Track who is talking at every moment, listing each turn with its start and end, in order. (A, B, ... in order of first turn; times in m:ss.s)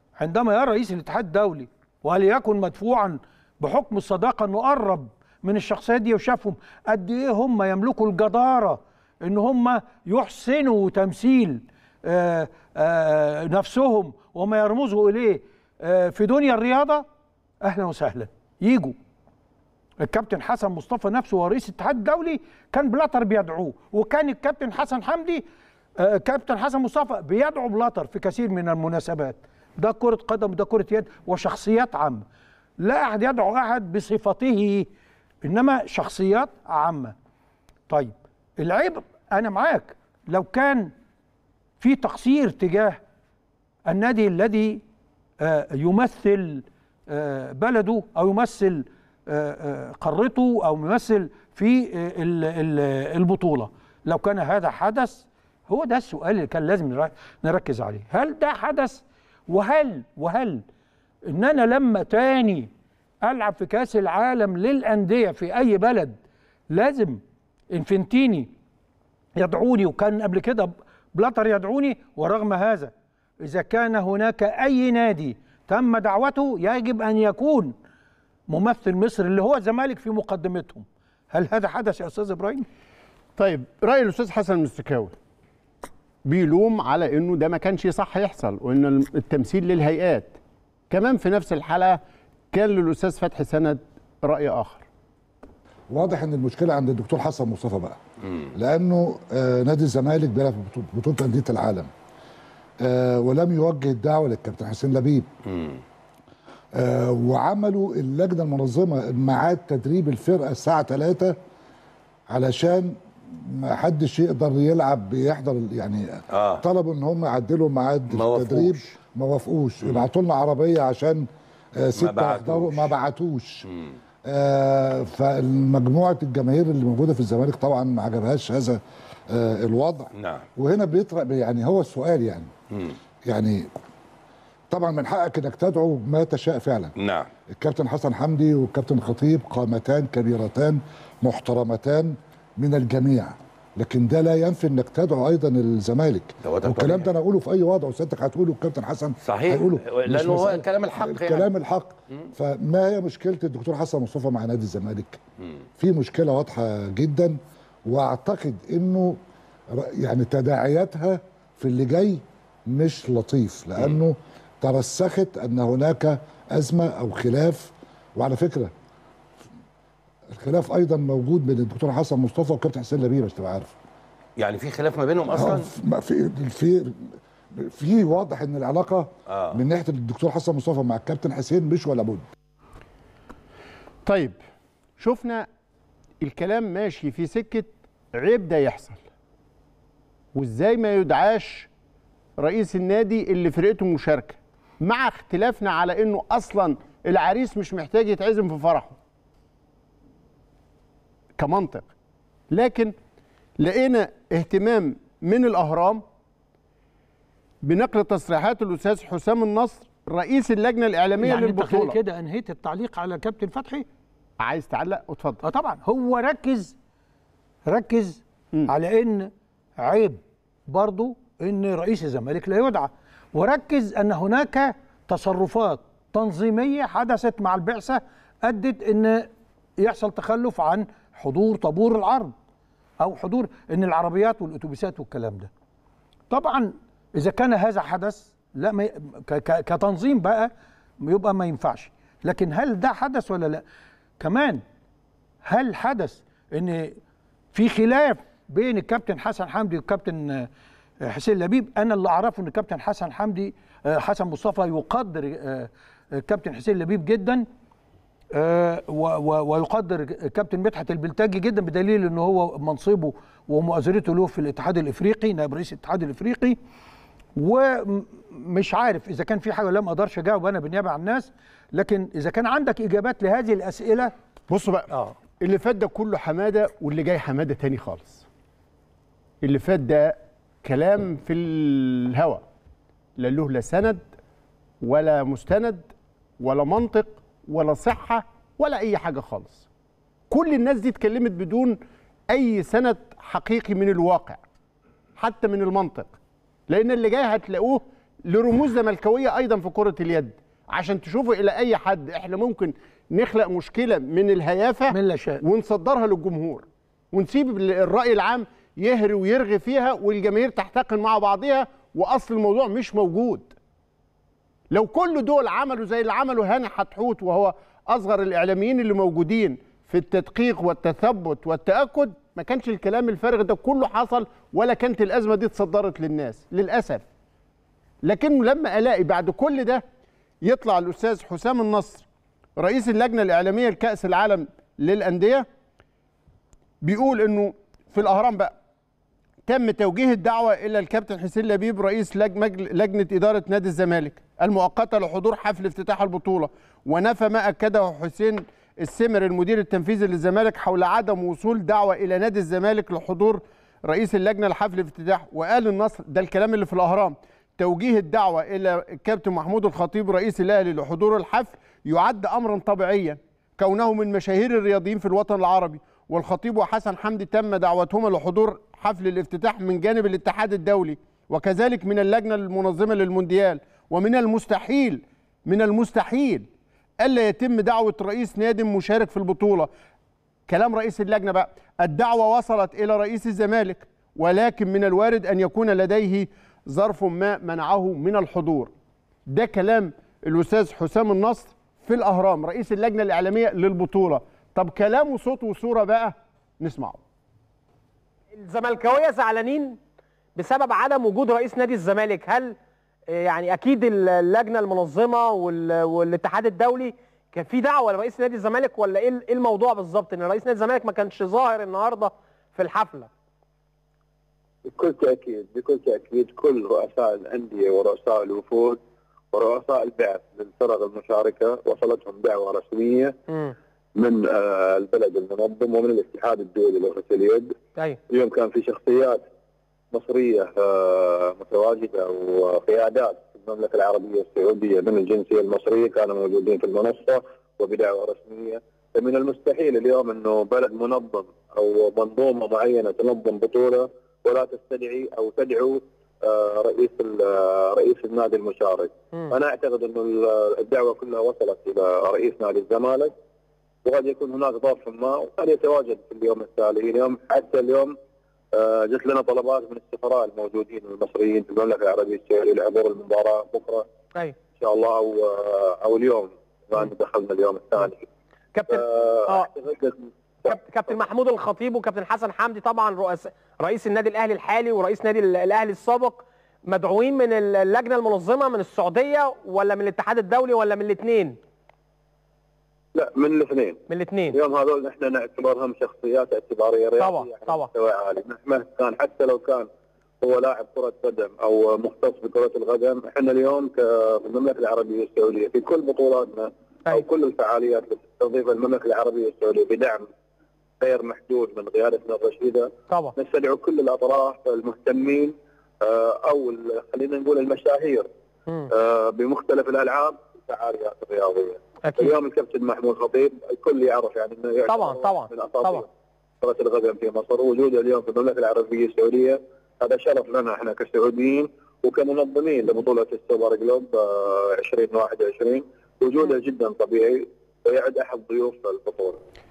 0:00.2-0:17.0 A
0:17.6-0:19.0 A
0:20.0-0:25.4 A
0:26.0-0:32.2 A
0:32.8-0:34.9 A
0:35.4-0:37.1 A
0:37.9-0:40.9 A
0:41.8-0:43.0 A
0:43.9-0:44.8 A
0:45.4-1:00.6 A
1:01.3-1:02.7 A
1:03.2-1:06.2 A
1:06.7-1:07.2 A
1:07.7-1:08.5 A
1:09.4-1:17.7 A
1:18.5-1:22.6 A
1:23.4-1:25.1 B
1:26.2-1:30.3 B
1:30.9-1:32.0 B
1:32.5-1:34.9 B
1:35.9-1:38.0 C
1:38.5-1:41.9 C
1:42.8-1:45.3 C
1:45.5-1:45.8 D
1:46.7-1:51.4 C
1:52.3-2:03.6 C
1:56.3-1:56.6 D
1:58.1-1:58.9 D
2:01.9-2:02.9 D
2:03.6-2:04.0 D
2:04.3-2:12.5 C
2:10.1-2:10.5 D
2:13.2-2:13.7 C
2:14.7-2:16.9 C
2:17.0-2:17.3 D
2:17.5-2:35.2 C
2:26.4-2:27.1 D
2:29.2-2:31.5 D
2:35.8-2:39.2 C
2:39.7-2:48.7 C
2:50.3-2:53.7 C
2:54.4-2:55.7 D
2:55.3-3:02.2 C
2:59.3-2:59.6 D
3:04.0-3:04.4 B
3:05.0-3:05.5 B
3:06.2-3:09.0 B
3:10.4-3:11.7 B
3:12.4-3:19.0 B
3:21.4-3:21.9 B
3:22.5-3:22.9 B
3:23.6-3:26.0 B
3:27.6-3:32.0 B
3:31.2-3:33.9 A
3:34.4-3:35.4 B
3:35.4-3:36.8 A
3:37.6-3:52.3 A
3:53.0-3:55.5 A
3:56.3-4:03.6 A
4:04.2-4:04.6 A
4:05.4-4:07.0 A
4:07.5-4:10.5 A
4:11.0-4:17.4 A
4:18.3-4:26.6 A
4:27.4-4:34.1 A
4:34.5-4:38.2 B
4:34.9-4:35.2 A
4:39.4-4:42.4 B
4:43.2-4:44.0 B
4:44.8-4:49.6 B
4:50.3-4:54.4 B
4:55.2-4:56.1 B
4:56.7-5:13.5 B
5:04.9-5:05.4 A
5:14.7-5:27.0 B
5:28.0-5:29.8 B
5:30.4-5:32.0 B
5:32.6-5:35.5 B
5:36.8-5:38.5 B
5:39.4-6:16.5 B
6:17.0-6:19.7 B
6:20.5-6:28.7 B
6:29.3-6:37.0 B
6:38.4-6:39.8 E
6:40.4-6:42.5 E
6:43.1-6:53.1 E
6:54.6-6:58.8 F
6:59.3-7:03.2 F
7:04.0-7:07.5 F
7:08.1-7:09.2 F
7:09.9-7:33.1 F
7:33.8-7:37.9 F
7:38.5-7:43.9 F
7:44.6-7:48.0 F
7:48.5-7:49.5 E
7:48.7-7:50.6 F
7:50.4-8:01.4 E
8:02.9-8:03.8 F
8:03.9-8:04.4 E
8:04.3-8:09.7 F
8:07.0-8:07.7 E
8:10.2-8:20.1 F
8:20.8-8:28.1 F
8:28.7-8:35.9 F
8:31.9-8:32.1 E
8:34.7-8:35.8 E
8:36.4-8:49.2 F